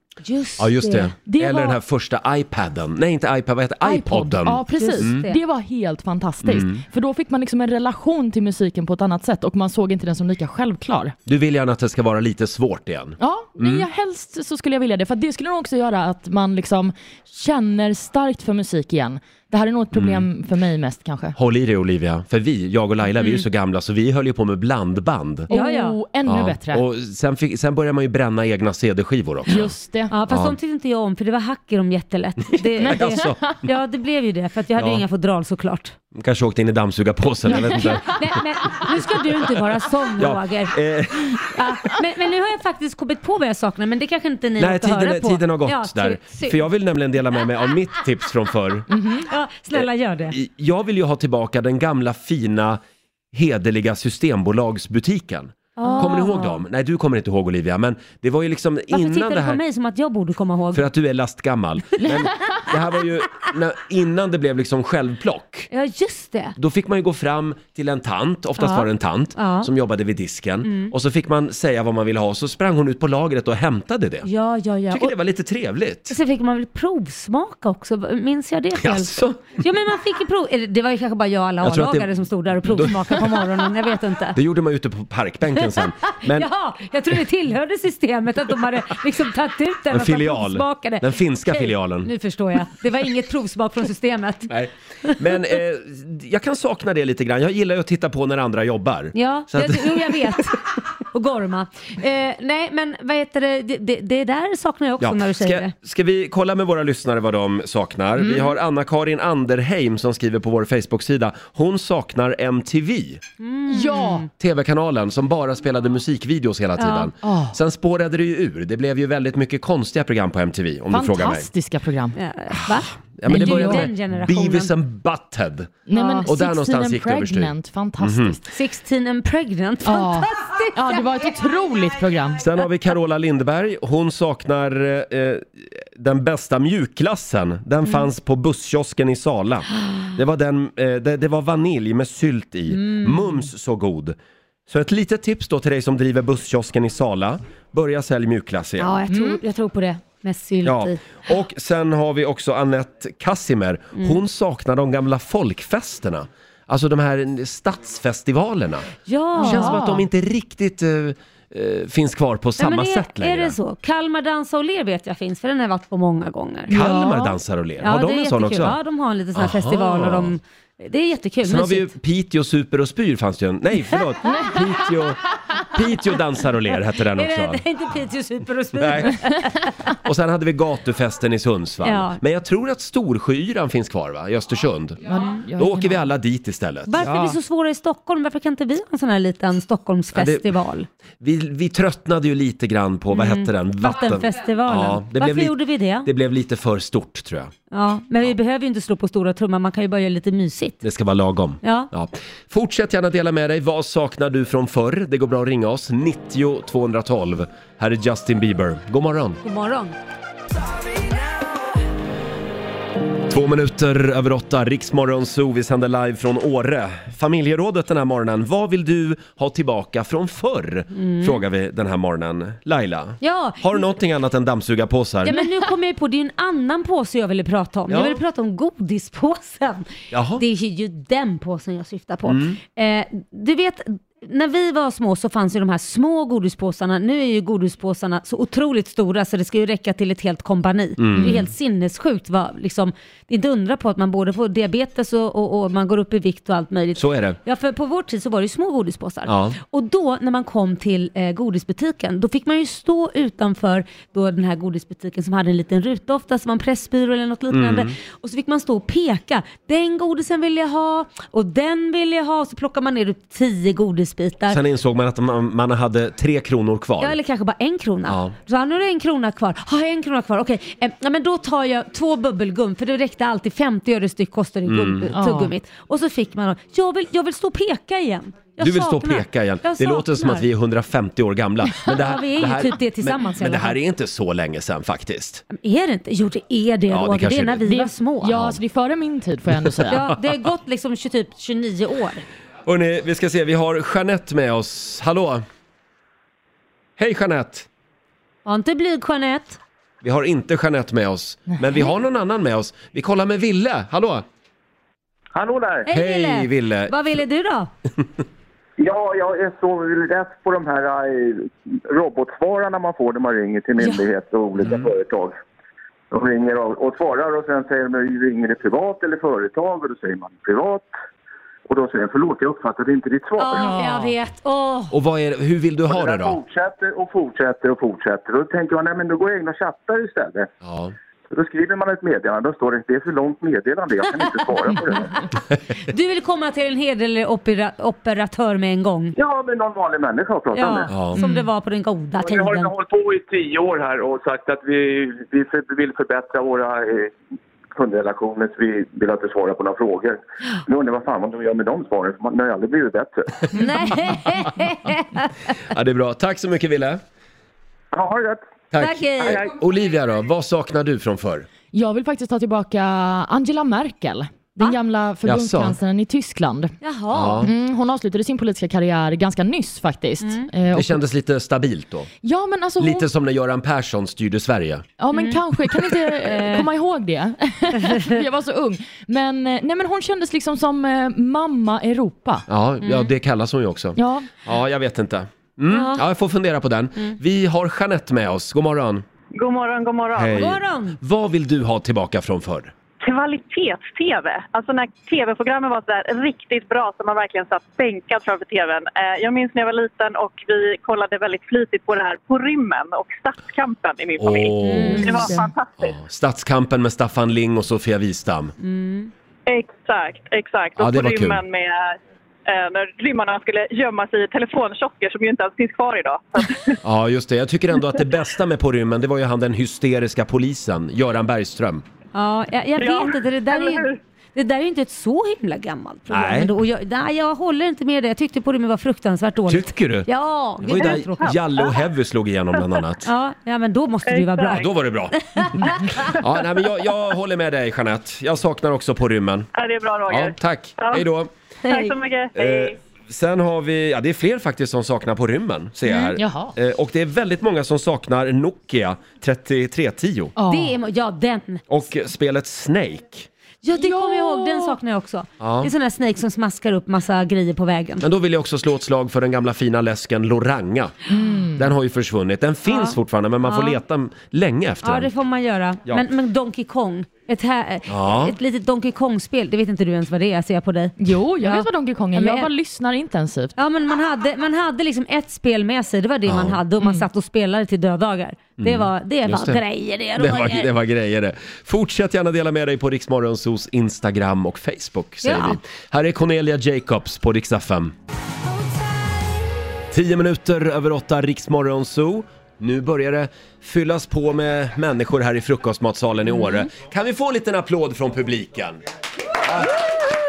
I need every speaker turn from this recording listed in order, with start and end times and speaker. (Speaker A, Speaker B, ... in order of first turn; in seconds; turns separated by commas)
Speaker A: 0.2-1.4, Speaker B: 0.6-5.2, Speaker C: 1.3-1.8, Speaker C: 3.8-11.2, Speaker A: 4.8-5.4, Speaker B: 6.4-6.8, Speaker B: 11.3-13.9, Speaker C: 13.2-21.4, Speaker B: 19.9-20.3, Speaker B: 21.4-25.5, Speaker C: 25.5-26.8, Speaker A: 25.5-26.0, Speaker B: 26.3-29.7, Speaker C: 29.5-30.1, Speaker A: 30.1-36.0, Speaker B: 30.3-30.6, Speaker C: 32.8-33.5, Speaker B: 32.8-33.6, Speaker B: 34.8-35.0, Speaker B: 36.1-38.3, Speaker A: 37.6-40.8, Speaker B: 40.2-41.7, Speaker A: 41.5-46.6, Speaker B: 44.6-48.9, Speaker C: 48.9-49.3, Speaker A: 49.3-50.4, Speaker B: 49.7-52.8, Speaker B: 53.3-59.6, Speaker A: 55.8-56.6, Speaker C: 55.8-56.1, Speaker A: 58.9-60.9, Speaker B: 60.7-65.7, Speaker A: 65.7-66.6, Speaker B: 66.6-74.3, Speaker A: 68.6-69.7, Speaker A: 70.7-70.9, Speaker A: 74.2-75.1, Speaker B: 74.9-76.2, Speaker A: 76.1-84.4, Speaker B: 78.8-79.6, Speaker B: 81.6-82.1, Speaker B: 82.7-83.2, Speaker B: 84.3-86.5, Speaker A: 85.6-95.2, Speaker B: 89.9-92.1, Speaker B: 94.5-100.4, Speaker A: 99.2-105.7, Speaker B: 105.0-113.2, Speaker A: 113.4-114.3, Speaker C: 113.7-114.3, Speaker B: 114.4-121.5, Speaker A: 116.8-117.1, Speaker C: 117.2-117.5, Speaker C: 120.9-122.2, Speaker A: 122.2-124.7, Speaker B: 123.2-128.4, Speaker C: 123.3-123.9, Speaker C: 125.9-128.4, Speaker A: 126.0-126.3, Speaker A: 128.5-131.3, Speaker C: 129.8-132.4, Speaker B: 132.4-144.2, Speaker A: 142.7-143.3, Speaker B: 144.7-148.9, Speaker A: 148.8-151.2, Speaker C: 149.1-149.4, Speaker B: 150.6-163.6, Speaker A: 159.1-159.8, Speaker C: 159.4-160.0, Speaker A: 162.6-166.8, Speaker C: 166.7-167.3, Speaker B: 166.7-168.8, Speaker A: 167.8-171.9, Speaker B: 169.3-170.3, Speaker B: 171.4-175.2, Speaker C: 174.2-174.6, Speaker B: 175.7-177.6, Speaker A: 177.1-179.7, Speaker B: 178.8-179.2, Speaker B: 180.1-185.0, Speaker A: 181.8-182.2, Speaker C: 185.1-186.1, Speaker B: 185.6-187.1, Speaker A: 186.9-190.9, Speaker C: 187.0-187.3, Speaker B: 190.1-190.5, Speaker B: 191.2-197.5, Speaker A: 193.1-196.1, Speaker A: 197.7-200.8, Speaker B: 200.8-209.4, Speaker A: 201.6-201.9, Speaker A: 209.4-209.9, Speaker B: 213.3-225.3, Speaker A: 220.9-221.4, Speaker A: 223.2-223.8, Speaker A: 225.2-264.6, Speaker B: 227.9-228.2, Speaker B: 230.1-230.4, Speaker B: 232.3-232.6, Speaker B: 241.0-241.5, Speaker C: 241.2-241.4, Speaker B: 247.0-247.4, Speaker B: 249.3-249.6, Speaker B: 257.5-257.9, Speaker B: 264.5-267.2, Speaker A: 267.0-280.5, Speaker B: 268.1-268.3, Speaker B: 274.7-275.1, Speaker C: 275.1-275.5, Speaker B: 278.6-285.4, Speaker A: 281.9-283.8, Speaker A: 285.5-288.4, Speaker B: 286.9-287.6, Speaker C: 287.7-290.0, Speaker B: 288.3-288.6, Speaker B: 289.9-290.1, Speaker A: 289.9-292.2, Speaker B: 292.6-295.4, Speaker B: 297.0-297.7, Speaker A: 298.4-299.6, Speaker B: 300.0-304.2, Speaker D: 305.4-305.9, Speaker A: 305.9-307.7, Speaker B: 305.9-306.9, Speaker D: 308.8-315.4, Speaker D: 316.1-320.9, Speaker D: 321.7-323.7, Speaker A: 323.4-324.9, Speaker C: 323.6-324.1, Speaker B: 324.9-326.4, Speaker D: 325.9-330.5, Speaker B: 330.6-330.9, Speaker D: 331.3-335.2, Speaker A: 335.9-339.1, Speaker D: 339.2-340.9, Speaker A: 340.5-342.7, Speaker B: 340.9-341.2, Speaker C: 341.2-341.5, Speaker D: 342.2-347.1, Speaker D: 347.8-353.5, Speaker A: 353.5-355.3, Speaker B: 355.7-357.0, Speaker D: 357.9-358.5, Speaker B: 358.7-361.5, Speaker A: 358.8-359.5, Speaker C: 361.7-366.7, Speaker B: 365.2-365.8, Speaker A: 366.8-367.5, Speaker B: 367.1-367.5, Speaker C: 367.4-371.0, Speaker A: 370.2-370.5, Speaker B: 370.7-372.1, Speaker C: 372.2-373.1, Speaker B: 372.8-374.9, Speaker C: 375.0-382.4, Speaker A: 375.1-376.7, Speaker B: 382.5-389.1, Speaker A: 382.8-383.1, Speaker C: 384.0-384.3, Speaker A: 385.7-386.0, Speaker E: 389.4-390.4, Speaker B: 390.1-392.7, Speaker A: 390.3-391.0, Speaker E: 393.0-406.0, Speaker B: 404.2-408.6, Speaker A: 404.7-405.3, Speaker C: 404.9-405.5, Speaker A: 408.6-409.1, Speaker E: 409.5-416.8, Speaker B: 410.8-411.4, Speaker B: 416.8-421.8, Speaker A: 422.1-431.3, Speaker E: 422.8-424.0, Speaker B: 426.1-426.5, Speaker B: 429.5-430.1, Speaker B: 430.6-433.1, Speaker A: 433.1-436.1, Speaker E: 434.1-434.7, Speaker B: 434.5-439.5, Speaker E: 439.6-441.1, Speaker B: 440.1-441.3, Speaker A: 441.7-441.9, Speaker E: 441.7-442.8, Speaker B: 442.4-450.3, Speaker A: 445.9-446.2, Speaker C: 446.2-446.5, Speaker C: 450.4-450.7, Speaker A: 450.5-451.6, Speaker B: 451.7-453.3, Speaker A: 453.6-458.1, Speaker C: 453.7-454.8, Speaker B: 455.4-455.7, Speaker B: 458.0-460.9, Speaker C: 461.1-461.7, Speaker B: 461.6-465.1, Speaker A: 462.7-463.8, Speaker A: 464.8-472.5, Speaker B: 467.9-468.3, Speaker C: 471.0-473.5, Speaker A: 473.6-480.7, Speaker B: 476.3-476.6, Speaker B: 478.6-479.6, Speaker B: 480.2-487.9, Speaker A: 485.2-485.6, Speaker B: 489.9-498.8